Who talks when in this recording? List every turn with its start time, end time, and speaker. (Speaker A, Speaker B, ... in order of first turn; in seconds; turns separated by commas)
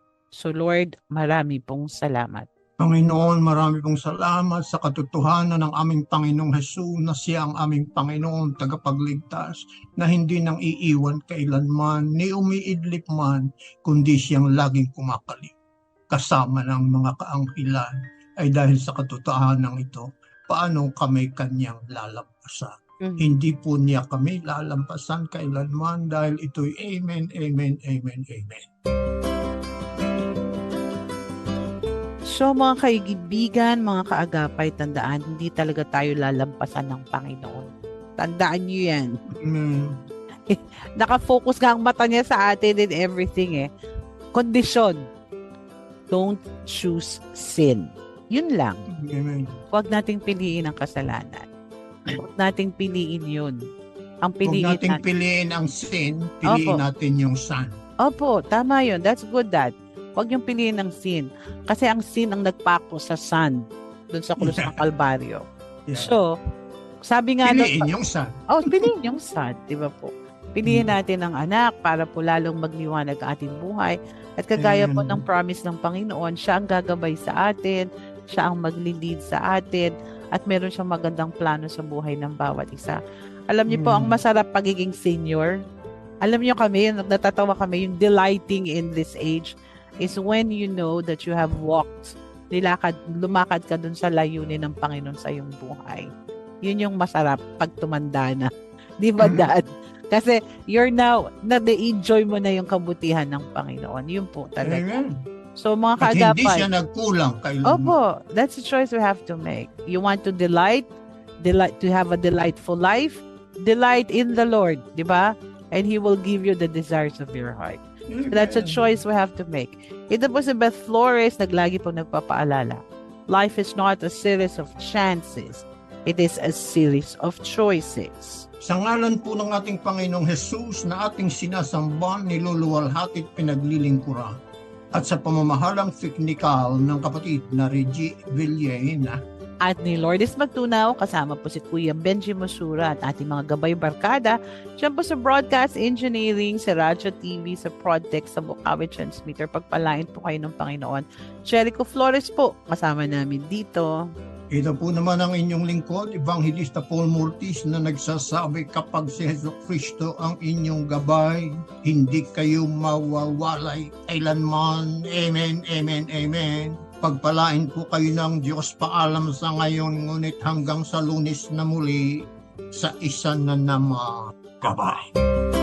Speaker A: 0.4-2.5, Speaker B: 2.8-15.6, Speaker B: 16.1-28.7, Speaker A: 23.0-23.3, Speaker A: 32.3-39.1, Speaker B: 39.3-40.0, Speaker A: 40.5-43.7, Speaker A: 44.3-45.0, Speaker A: 46.1-48.8, Speaker B: 48.9-49.5, Speaker A: 49.7-51.5, Speaker A: 52.2-53.6, Speaker A: 54.2-55.0, Speaker B: 54.4-57.7, Speaker A: 56.5-56.8, Speaker A: 58.0-65.4, Speaker B: 64.4-64.8, Speaker B: 65.9-66.1, Speaker A: 66.0-66.3, Speaker A: 67.1-67.9, Speaker B: 67.4-68.9, Speaker A: 68.5-83.0, Speaker B: 70.7-70.9, Speaker B: 74.6-75.2, Speaker A: 83.5-85.5, Speaker B: 83.7-84.2, Speaker A: 86.2-96.1, Speaker A: 96.6-98.5, Speaker A: 99.0-104.8, Speaker B: 99.2-99.5, Speaker B: 104.6-105.2, Speaker A: 105.6-106.7, Speaker B: 106.0-108.0, Speaker A: 107.7-110.9, Speaker A: 111.4-117.8, Speaker B: 118.1-119.0, Speaker A: 118.3-128.5, Speaker B: 128.6-134.4, Speaker B: 134.9-139.2, Speaker A: 139.6-153.9, Speaker B: 154.5-175.1